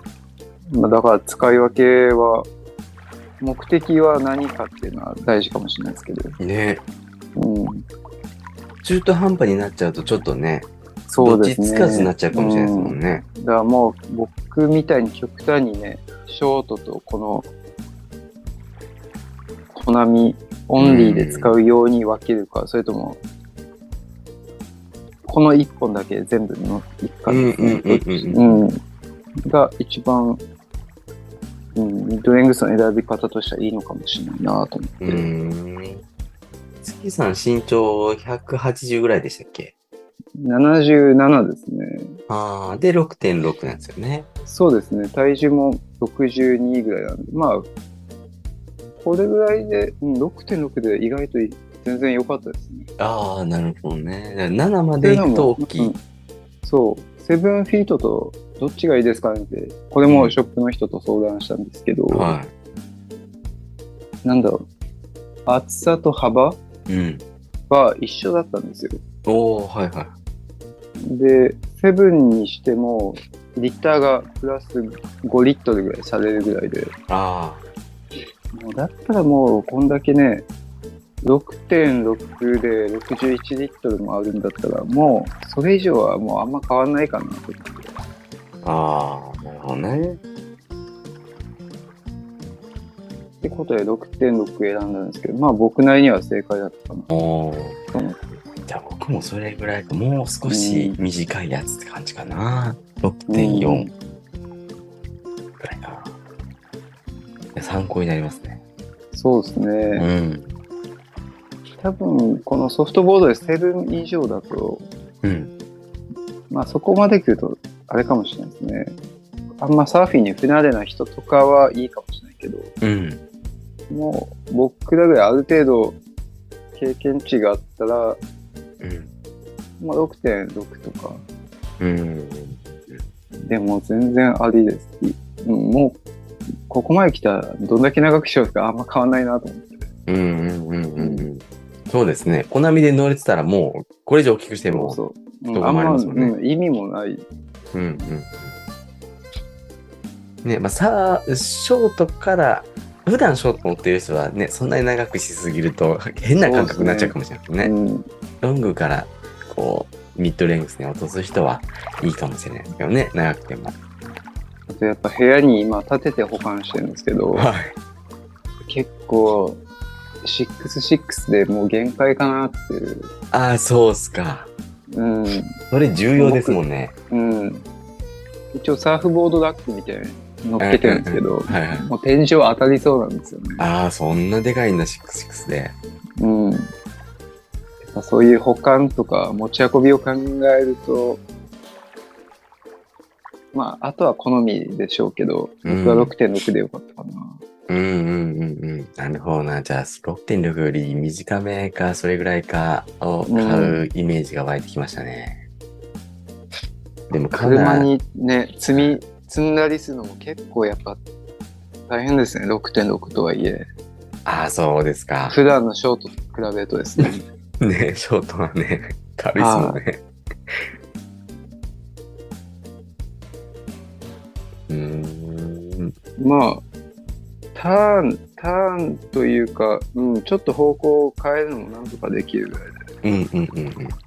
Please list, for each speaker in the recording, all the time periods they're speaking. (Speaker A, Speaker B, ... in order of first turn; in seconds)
Speaker A: 0.7-2.5, 3.4-6.4, 7.3-7.8, 11.1-17.5, 19.7-23.2, 25.2-28.8, 29.4-30.4, 31.7-35.3, 40.4-42.2, 44.4-47.6, 49.0-52.9, 55.0-56.0, 56.6-62.3, 64.2-64.7, 65.5-66.6, 67.7-69.0, 71.0-76.9, 78.5-80.5, 81.2-87.9, 93.4-97.1, 97.9-98.2, 100.5-101.0, 103.3-103.9, 109.1-110.0, 111.8-114.9, 116.5-118.9, 119.6-122.7, 123.9-126.0, 126.7-128.2, 129.8-131.2, 133.4-136.0, 136.7-139.9, 141.0-141.3, 144.7-147.2, 156.4-158.1, 164.7-167.5, 168.7-169.6, 170.2-173.1, 174.9-175.6, 176.2-177.6, 178.5-183.6, 186.2-186.7, 187.8-191.2, 193.5-197.4, 203.3-203.8, 207.4-211.0, 211.9-213.7, 215.3-217.2, 219.3-219.8, 226.2-226.6, 227.5-232.8
Speaker B: 6.4-6.8, 8.8-13.2, 20.8-21.6, 27.3-28.6, 35.0-36.0, 36.8-39.7, 42.3-44.3, 53.0-55.9, 60.1-60.3, 62.1-62.5, 66.9-67.2, 69.2-70.1, 77.1-77.6, 88.6-90.2, 97.1-97.8, 98.7-103.9, 105.6-106.1, 107.5-108.6, 110.0-110.5, 115.2-115.5, 122.8-123.2, 128.8-129.1, 131.8-133.0, 140.1-145.0, 145.5-146.3, 147.7-148.6, 150.4-157.7, 158.4-163.7, 167.3-167.7, 173.3-174.5, 175.7-176.9, 180.6-181.8, 183.6-185.7, 195.6-196.1, 197.7-205.4, 207.1-207.9, 214.2-215.3, 217.6-220.7, 224.7-225.9, 233.0-234.0